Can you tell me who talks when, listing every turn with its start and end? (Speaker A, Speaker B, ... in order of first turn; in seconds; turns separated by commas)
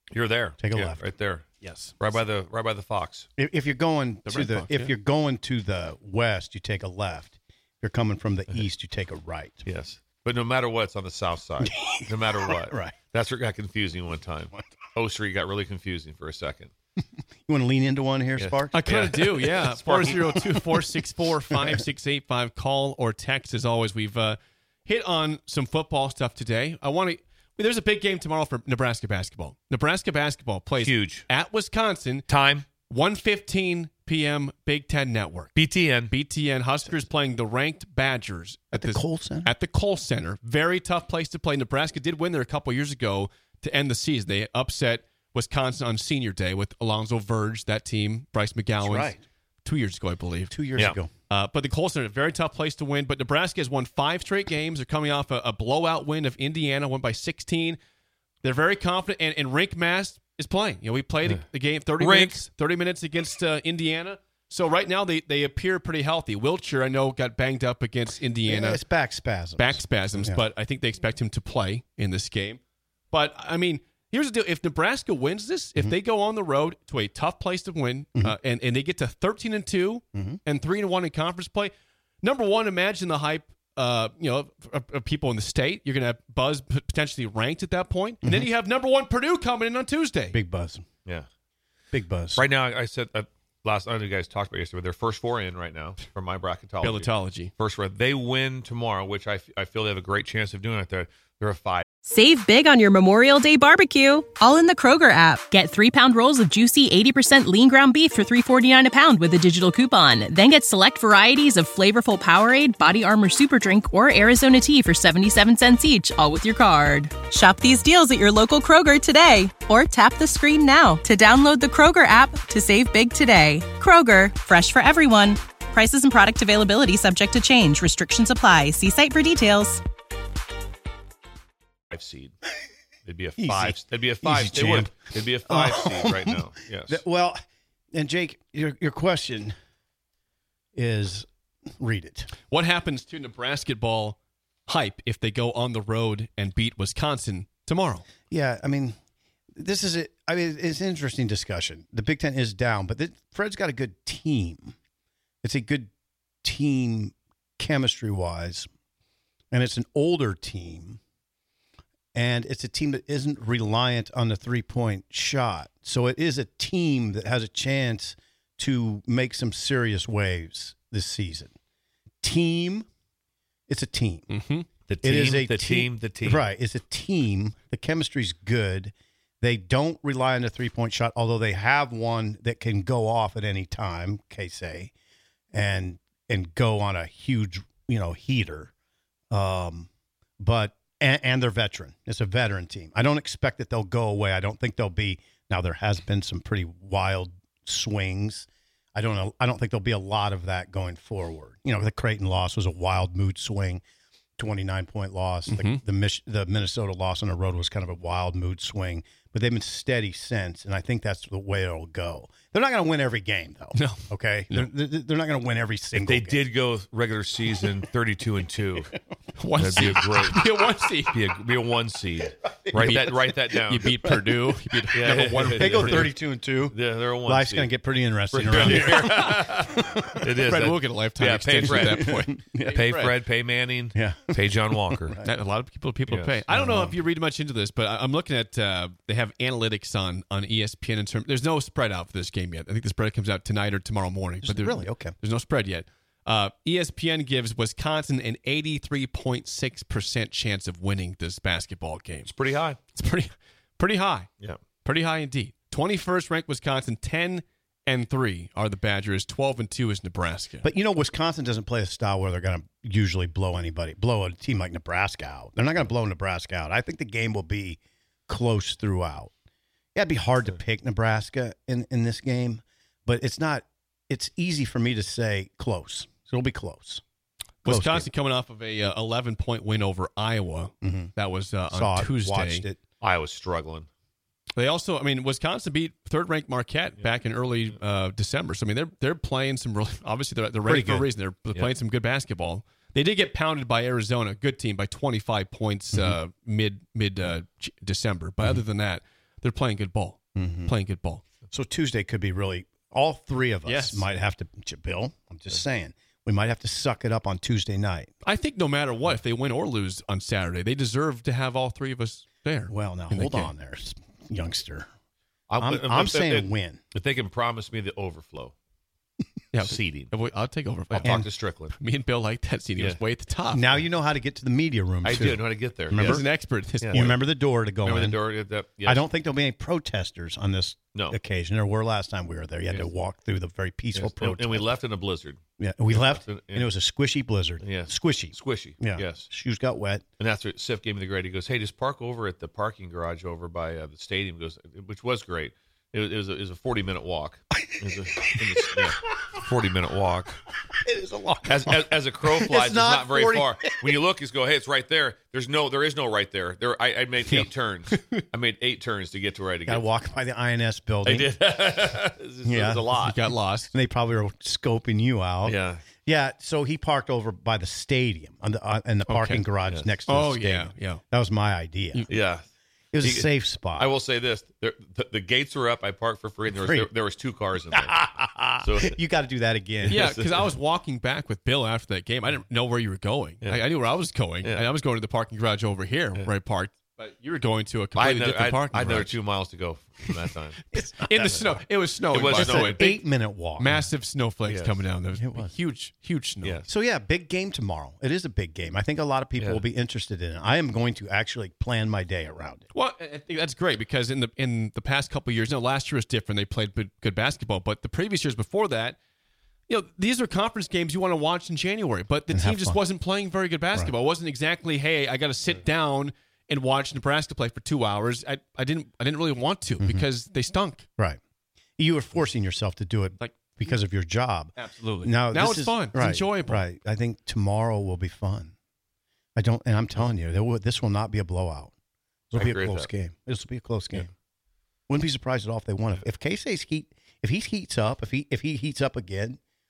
Speaker A: 0.1-1.5, Speaker B: 0.6-1.1, Speaker C: 1.6-2.0, Speaker A: 2.0-3.3, Speaker B: 3.4-9.7, Speaker C: 4.3-4.9, Speaker A: 9.7-16.7, Speaker B: 11.6-13.0, Speaker B: 17.4-18.8, Speaker A: 18.4-20.4, Speaker C: 18.7-32.3, Speaker B: 21.5-21.8, Speaker A: 30.8-31.3, Speaker A: 32.3-32.7, Speaker C: 32.8-35.5, Speaker A: 35.5-36.1, Speaker C: 36.1-50.6, Speaker B: 38.7-39.5, Speaker B: 48.8-49.2, Speaker B: 50.5-51.1, Speaker C: 51.3-57.8, Speaker C: 58.4-68.8, Speaker A: 62.0-62.4, Speaker B: 68.5-70.4, Speaker C: 69.6-72.6, Speaker C: 73.1-90.4, Speaker B: 80.2-80.4, Speaker B: 88.2-88.5, Speaker B: 90.3-90.8, Speaker B: 91.9-92.4, Speaker A: 92.4-101.8, Speaker C: 96.8-97.5, Speaker D: 102.0-129.8, Speaker A: 131.9-132.3, Speaker A: 133.1-137.0, Speaker B: 133.4-137.4, Speaker B: 137.9-139.5, Speaker B: 140.8-142.3, Speaker C: 142.5-148.1, Speaker B: 148.3-149.0, Speaker B: 149.6-154.8, Speaker B: 155.4-155.9, Speaker B: 156.4-158.7, Speaker B: 159.5-161.0, Speaker B: 162.2-171.5, Speaker B: 172.2-172.9, Speaker B: 173.7-174.3, Speaker C: 174.3-174.7, Speaker A: 174.9-176.5, Speaker B: 175.0-184.9, Speaker B: 185.5-188.7, Speaker B: 189.3-203.8, Speaker B: 204.4-216.5, Speaker C: 205.5-205.8, Speaker C: 213.8-214.7, Speaker A: 216.0-218.9, Speaker C: 219.4-221.2, Speaker A: 219.6-220.4, Speaker A: 221.1-224.0, Speaker B: 222.7-223.3, Speaker C: 222.7-226.1, Speaker A: 224.9-226.2, Speaker B: 225.4-230.3, Speaker A: 226.7-227.7, Speaker A: 228.3-235.2, Speaker C: 228.6-229.4, Speaker C: 230.4-233.2, Speaker B: 231.8-232.8, Speaker B: 233.9-235.3, Speaker C: 235.2-252.3, Speaker A: 236.1-236.4, Speaker B: 236.5-237.0, Speaker B: 244.4-245.2, Speaker A: 252.3-252.8, Speaker C: 252.9-254.3, Speaker C: 254.8-260.7, Speaker B: 260.6-269.3, Speaker B: 269.9-277.0, Speaker B: 277.6-278.1, Speaker C: 277.6-282.7, Speaker B: 280.8-281.1, Speaker B: 281.7-282.8, Speaker A: 283.0-283.9, Speaker C: 284.6-301.2, Speaker B: 290.7-291.1, Speaker B: 300.4-300.7, Speaker B: 301.5-308.1, Speaker C: 303.7-304.1, Speaker C: 308.2-313.5, Speaker B: 312.7-314.9, Speaker A: 315.5-318.5, Speaker B: 315.6-316.8, Speaker C: 319.5-321.1, Speaker A: 319.6-320.1, Speaker A: 320.9-321.7, Speaker B: 321.0-321.3, Speaker C: 321.7-323.7, Speaker B: 323.5-326.3, Speaker A: 325.0-326.2, Speaker C: 325.9-327.2, Speaker A: 326.8-327.2, Speaker B: 326.9-328.2, Speaker A: 327.8-329.0, Speaker B: 328.8-334.7, Speaker A: 333.9-336.7, Speaker B: 335.6-340.0, Speaker A: 337.6-339.3, Speaker A: 340.2-350.4, Speaker B: 347.9-348.9, Speaker B: 350.8-354.0, Speaker A: 351.5-359.9, Speaker C: 357.3-358.2, Speaker B: 359.7-361.4, Speaker A: 361.1-363.2, Speaker B: 362.4-372.1, Speaker C: 363.0-363.7, Speaker A: 365.4-365.8, Speaker C: 369.1-369.4, Speaker A: 369.7-369.9, Speaker C: 370.1-371.0, Speaker A: 372.1-372.5, Speaker B: 372.9-373.9, Speaker A: 373.0-378.1, Speaker B: 376.5-376.9, Speaker B: 377.8-380.1, Speaker A: 378.6-378.9, Speaker A: 379.9-380.5, Speaker C: 379.9-389.2, Speaker A: 384.4-384.7, Speaker A: 387.9-390.6, Speaker B: 390.7-391.5, Speaker C: 390.7-393.0, Speaker A: 391.1-391.6, Speaker A: 392.1-392.9, Speaker B: 392.2-393.8, Speaker C: 393.6-396.6, Speaker A: 394.5-394.9, Speaker B: 395.2-395.5, Speaker A: 396.4-396.7, Speaker B: 396.7-402.6, Speaker C: 402.7-409.0, Speaker C: 409.7-420.9, Speaker B: 412.3-412.8, Speaker B: 419.8-420.1, Speaker B: 421.8-428.5, Speaker C: 423.2-423.6, Speaker C: 424.6-426.6, Speaker B: 429.4-431.7, Speaker B: 432.3-434.1, Speaker A: 432.4-432.9, Speaker B: 434.9-439.4